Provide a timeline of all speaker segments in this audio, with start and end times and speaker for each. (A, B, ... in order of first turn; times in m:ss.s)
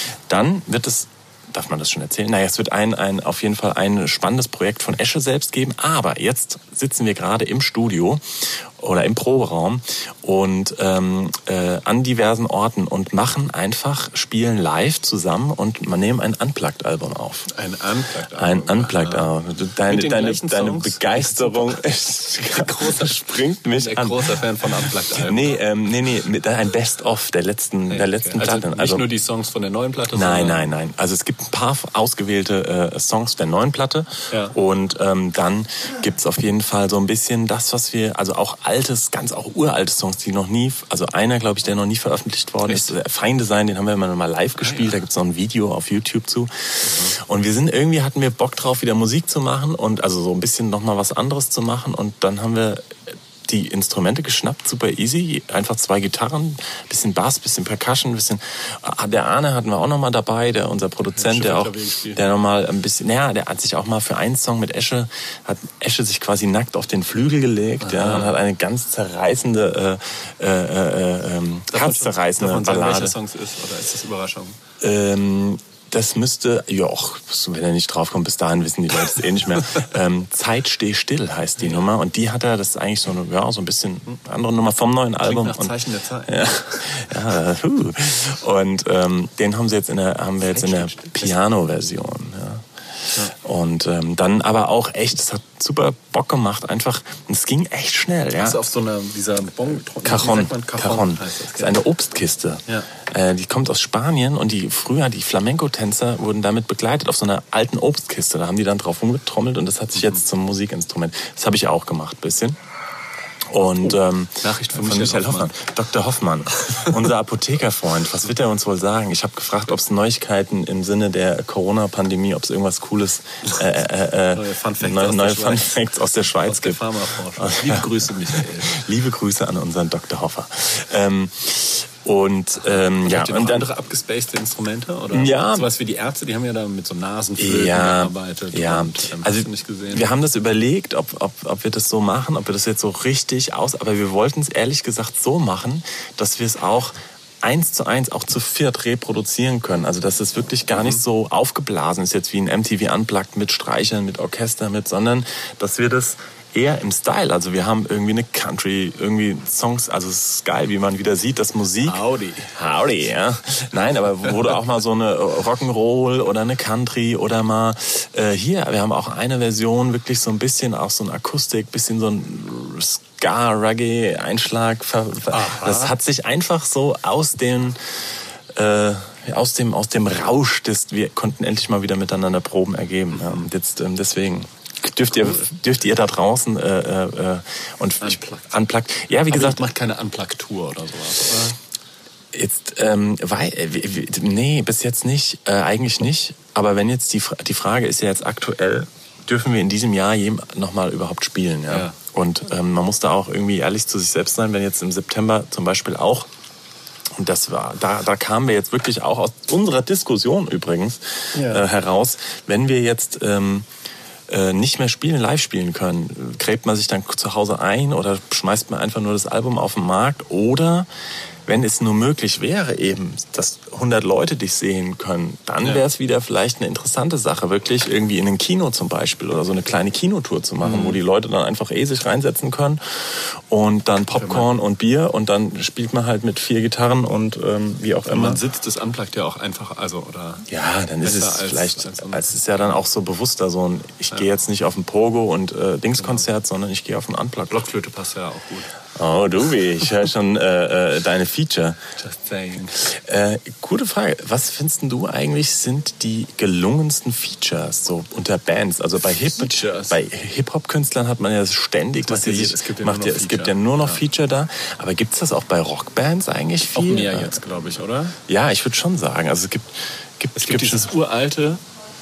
0:00.3-0:17.5 A
0:17.5-0:19.3 B
0:18.4-0:29.1 A
0:19.8-0:21.7 B
0:22.4-0:25.6 B
0:27.9-0:30.7 B
0:30.1-1:13.2 A
0:34.3-0:34.5 B
0:44.6-0:44.9 B
0:46.8-0:47.2 B
1:01.1-1:02.2 B
1:07.8-1:08.3 B
1:11.7-1:14.6 B
1:14.8-1:25.8 A
1:25.2-1:26.9 B
1:26.3-1:32.6 A
1:30.5-1:31.4 B
1:33.3-1:38.6 A
1:38.4-1:41.8 B
1:40.0-1:52.6 A
1:53.5-2:13.7 A
1:53.8-1:55.5 B
2:04.3-2:05.8 B
2:06.4-2:08.8 B
2:12.9-2:20.1 B
2:15.1-2:15.7 A
2:17.4-2:42.0 A
2:30.7-2:31.0 B
2:41.8-2:42.5 B
2:42.5-3:09.6 A
2:55.3-2:55.9 B
3:03.2-3:03.4 B
3:08.0-3:08.5 B
3:09.3-3:11.6 B
3:12.3-3:26.3 A
3:21.7-3:22.0 B
3:27.2-3:33.7 A
3:31.3-3:31.6 B
3:34.3-3:40.9 A
3:41.4-3:58.4 A
3:50.6-3:51.0 B
3:54.1-3:54.5 B
3:58.0-4:00.4 B
4:00.5-4:07.6 A
4:01.0-4:02.7 B
4:06.0-4:06.2 B
4:07.5-4:08.7 B
4:09.0-4:11.8 A
4:12.0-4:12.8 B
4:12.8-4:27.4 A
4:19.2-4:20.0 B
4:22.0-4:24.0 B
4:26.7-4:28.2 B
4:28.3-4:30.9 A
4:30.4-4:31.6 B